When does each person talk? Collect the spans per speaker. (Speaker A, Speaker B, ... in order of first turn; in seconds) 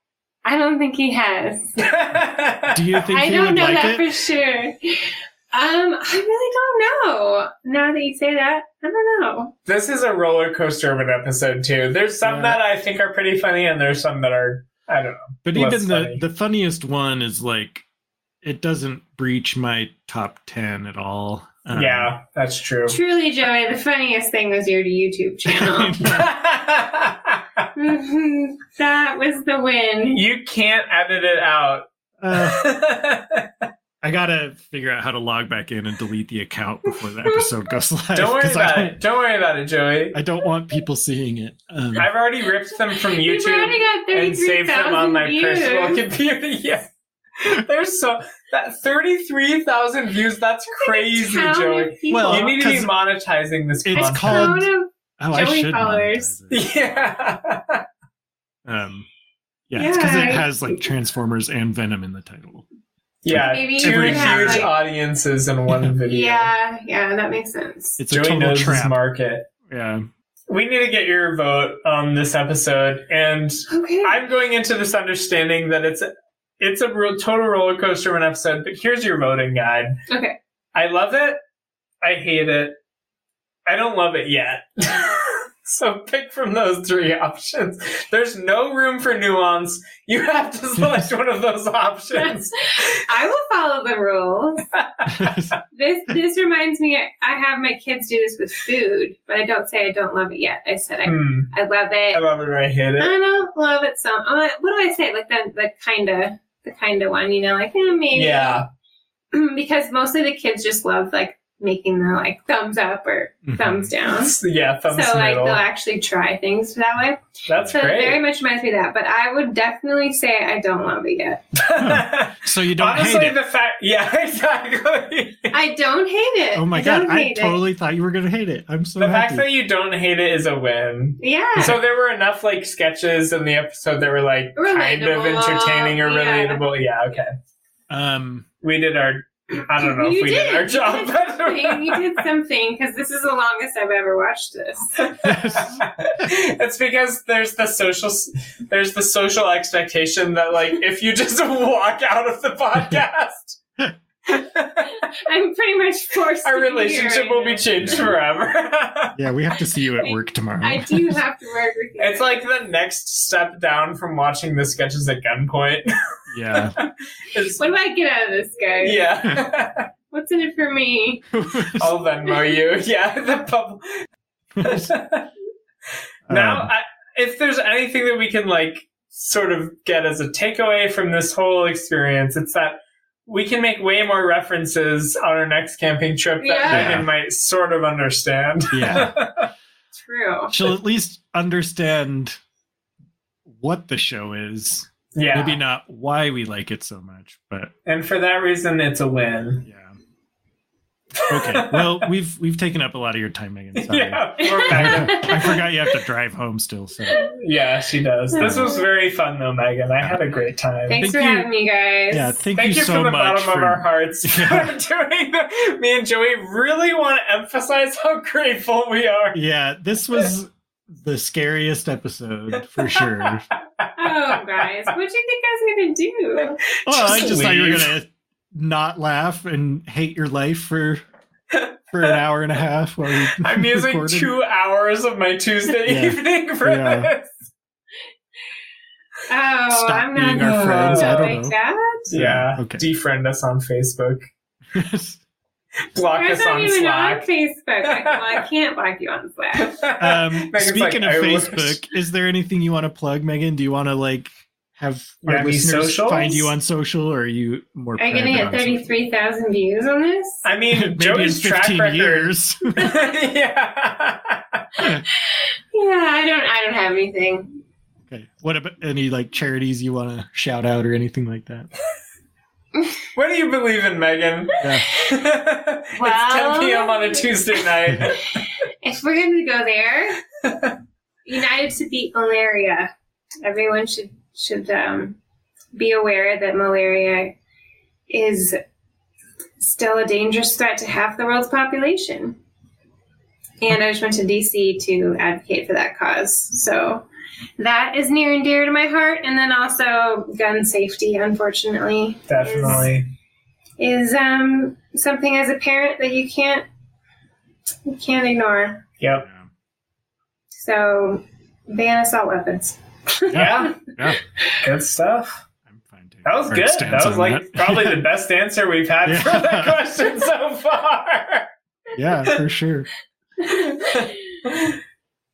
Speaker A: 0.4-1.8, 3.1-9.5, 22.9-26.0, 27.8-30.2, 42.9-46.0, 50.8-52.6, 53.9-56.3, 59.7-60.6, 63.4-64.8, 66.1-68.0, 73.7-74.2, 80.1-80.3, 92.2-94.7, 95.7-102.2, 103.0-108.6, 109.3-114.3, 114.9-121.4, 125.5-127.6, 131.2-131.8, 134.6-136.6, 139.8-144.9, 155.2-158.1, 160.0-162.4, 167.6-169.1, 170.1-171.2, 186.4-187.0, 190.0-190.5, 204.4-205.2, 208.3-208.8, 210.9-212.4, 224.0-227.2, 239.3-242.0, 246.1-249.8, 258.0-260.4, 265.3-267.6, 276.0-277.7, 278.8-280.2, 281.2-282.9, 283.4-285.1, 285.7-287.3, 288.1-288.6, 289.6-292.4, 293.6-297.1, 297.6-302.9, 303.8-306.7, 307.9-308.8, 310.6-313.6
Speaker B: 1.8-2.8, 9.7-16.2, 21.7-23.0, 26.1-27.6, 30.1-31.9, 32.4-33.7, 38.1-40.1, 42.0-54.6, 56.5-57.8, 63.2-66.5, 68.1-69.5, 70.5-76.1, 76.6-80.0, 80.7-81.4, 82.0-82.8, 83.7-93.0, 94.8-95.3, 101.0-101.5, 102.1-103.1, 108.1-108.7, 114.1-115.6, 117.5-118.2, 121.6-125.5, 129.0-137.3, 138.6-142.2, 145.0-153.6, 154.3-154.9, 156.4-159.1, 162.0-165.9, 166.5-167.6, 168.8-169.9, 171.8-173.8, 174.6-175.3, 176.3-189.5, 195.1-195.6, 197.8-199.6, 201.2-202.0, 203.8-205.6, 207.2-211.0, 212.5-219.4, 223.8-224.4, 226.8-227.9, 233.2-237.4, 240.3-241.3, 242.1-244.3, 245.9-247.2, 249.6-251.8, 255.2-256.5, 260.4-264.7, 273.1-278.4, 280.4-280.7, 302.3-303.1, 309.0-309.2, 313.3-313.8, 314.6-315.4, 316.2-321.5, 323.5-324.8
Speaker C: 2.7-4.0, 12.2-12.6, 15.4-17.8, 18.4-22.1, 25.5-26.2, 32.2-32.6, 34.0-39.0, 40.1-42.1, 52.1-52.9, 53.8-57.1, 58.6-59.1, 59.7-62.7, 63.3-64.7, 68.0-69.0, 69.7-70.0, 95.1-95.5, 113.5-113.9, 121.8-123.4, 126.5-129.5, 137.9-138.5, 145.2-146.3, 157.8-158.2, 159.2-161.2, 166.3-166.8, 171.3-171.9, 174.6-174.9, 176.3-176.7, 186.7-187.1, 188.7-189.1, 190.5-192.4, 193.5-197.7, 199.6-200.0, 201.3-207.2, 208.4-208.7, 211.0-211.5, 212.1-214.7, 219.3-223.4, 226.8-231.0, 231.9-234.3, 235.8-237.1, 239.7-241.5, 242.1-242.8, 244.7-245.2, 250.0-258.9, 260.7-262.9, 268.1-271.7, 274.6-274.8, 309.2-309.5, 313.3-314.2, 315.7-318.0, 319.1-319.8, 321.9-322.9